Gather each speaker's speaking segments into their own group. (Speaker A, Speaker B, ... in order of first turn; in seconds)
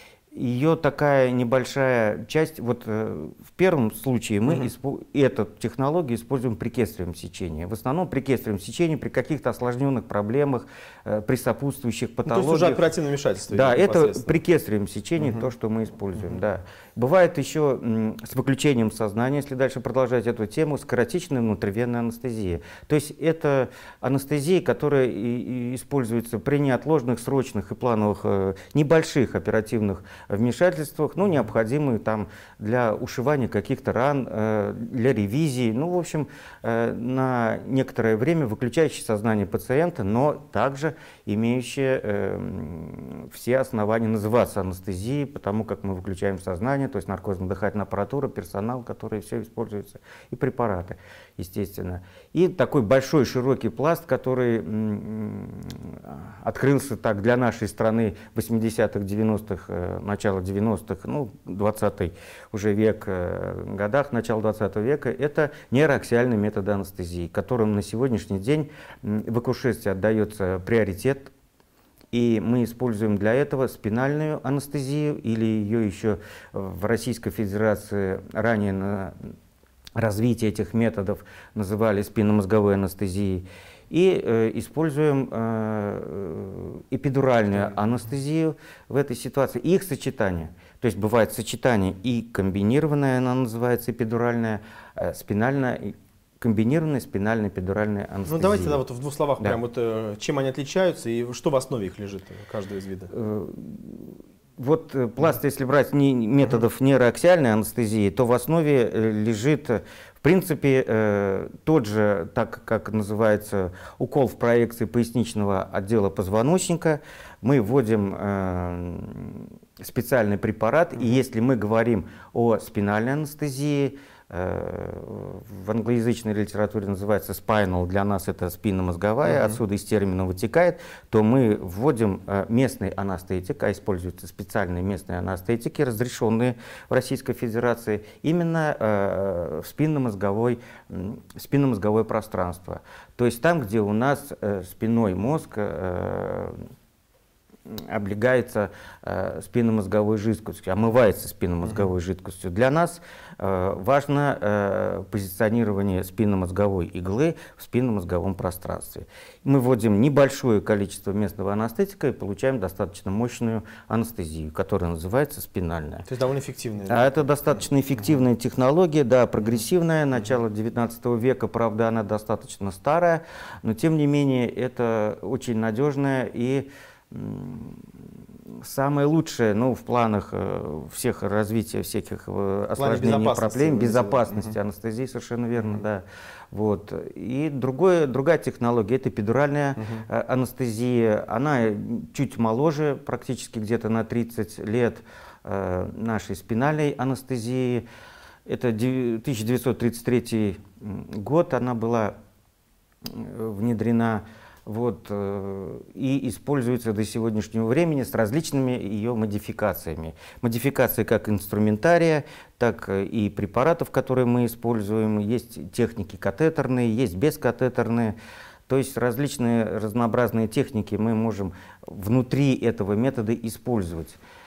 Speaker A: 0.3-12.9, 13.5-71.3, 72.1-79.2, 80.0-98.8, 103.1-146.6, 147.7-166.1, 166.9-177.9, 178.6-197.8, 198.5-202.2, 203.1-218.2, 218.7-224.2
Speaker B: 12.3-14.3, 98.3-103.1, 129.3-129.6, 151.7-151.9, 166.1-167.1, 182.8-184.6, 189.8-190.1